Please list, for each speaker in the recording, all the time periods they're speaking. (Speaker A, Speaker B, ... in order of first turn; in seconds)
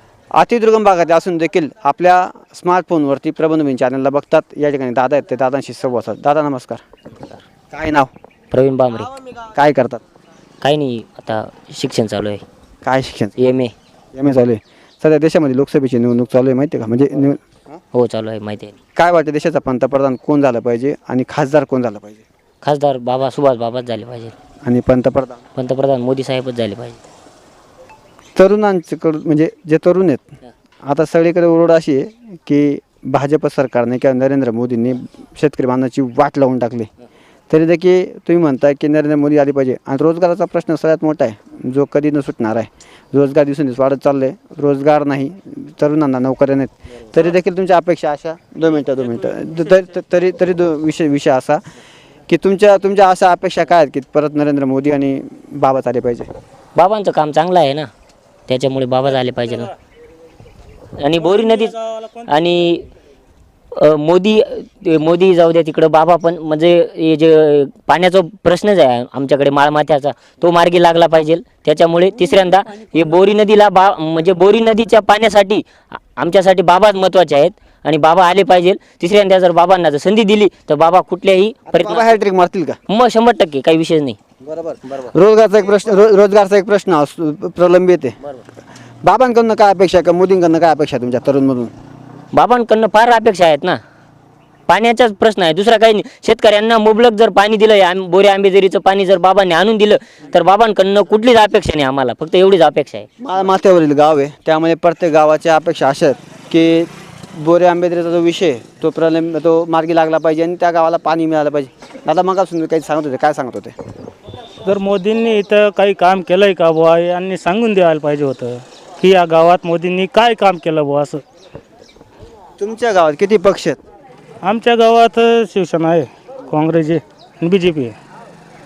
Speaker A: 0.3-6.8, 7.7-8.1, 9.5-10.0, 12.8-13.3, 14.1-17.8, 18.9-22.2, 24.6-25.4, 28.4-30.2, 30.8-36.9, 37.5-51.6, 52.3-56.3, 81.7-82.8, 84.7-88.2, 89.0-91.7, 103.2-113.7, 122.6-123.8
Speaker B: 8.5-9.1, 10.6-12.4, 13.4-13.7, 17.9-18.7, 22.6-24.3, 25.6-27.0, 56.8-57.9, 58.5-59.7, 61.0-62.9, 63.7-82.1, 82.9-84.2, 92.3-93.8, 94.7-103.1
Speaker C: 61.3-62.0, 114.6-121.2, 124.4-128.0